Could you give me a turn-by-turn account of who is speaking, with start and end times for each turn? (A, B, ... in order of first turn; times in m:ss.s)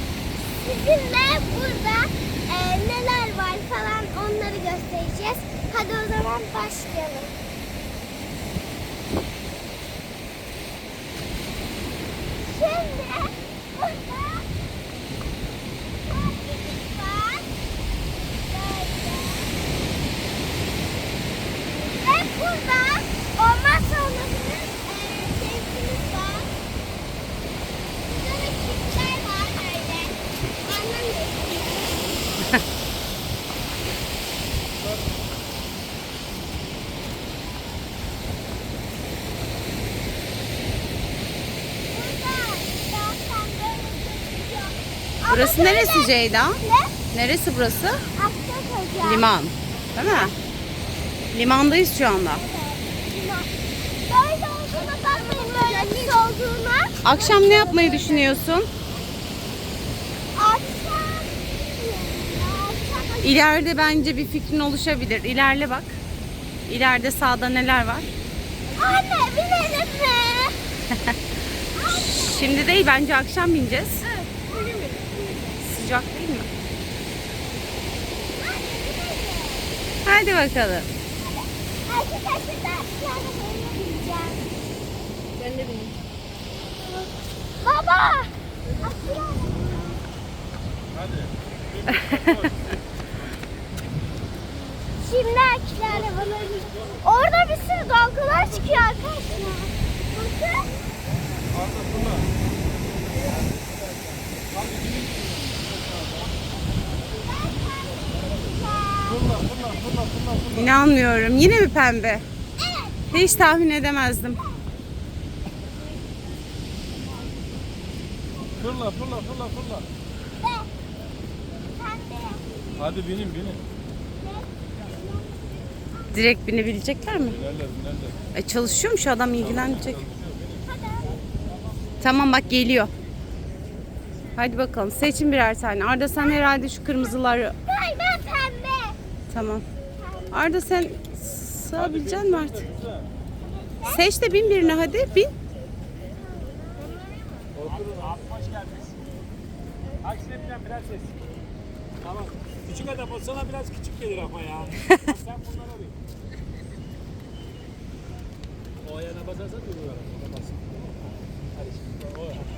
0:00.6-0:07.4 A
0:12.4-0:14.5 A
0:16.0-0:17.5 A
0:18.4-0:19.5 A
0:21.8-0:26.5 A
0:28.0-0:32.2 A
0:41.9-0:47.0 A
0:45.3-0:46.6 B
0:47.1-0:48.0 B
0:48.2-0:49.3 A
0:49.0-0:50.4 B
0:50.0-0:50.3 A
0:51.3-0:52.4 B
0:52.3-0:53.5 A
0:54.1-0:58.4 A
0:57.0-0:58.7 B
1:00.4-1:04.1 A
1:03.2-1:06.0 B
1:06.7-1:08.1 B
1:08.8-1:10.7 A
1:11.7-1:12.6 A
1:11.9-1:14.1 B
1:14.4-1:15.6 A
1:15.6-1:16.5 B
1:18.4-1:19.7 A
1:20.0-1:20.9 B
1:21.2-1:24.4 A
1:25.4-1:25.9 C
1:27.6-1:30.0 A
1:31.0-1:31.3 D
1:31.9-1:32.5 B
1:35.0-1:40.8 A
1:47.1-1:50.4 A
1:50.5-1:52.2 B
1:52.6-1:53.6 A
1:53.1-1:54.4 B
1:58.7-1:59.8 D
2:00.4-2:00.7 A
2:01.8-2:03.0 A
2:02.9-2:03.6 D
2:04.2-2:06.2 A
2:06.1-2:07.5 B
2:07.4-2:08.1 D
2:08.3-2:10.1 B
2:10.6-2:11.2 A
2:12.0-2:12.9 B
2:14.4-2:17.6 B
2:17.7-2:19.0 A
2:19.3-2:19.6 B
2:20.0-2:20.5 A
2:20.3-2:22.7 B
2:23.4-2:24.1 A
2:23.9-2:25.3 B
2:26.0-2:27.5 A
2:27.8-2:29.0 C
2:30.1-2:31.1 C
2:32.1-2:35.9 C
2:38.9-2:40.6 C
2:41.6-2:42.3 C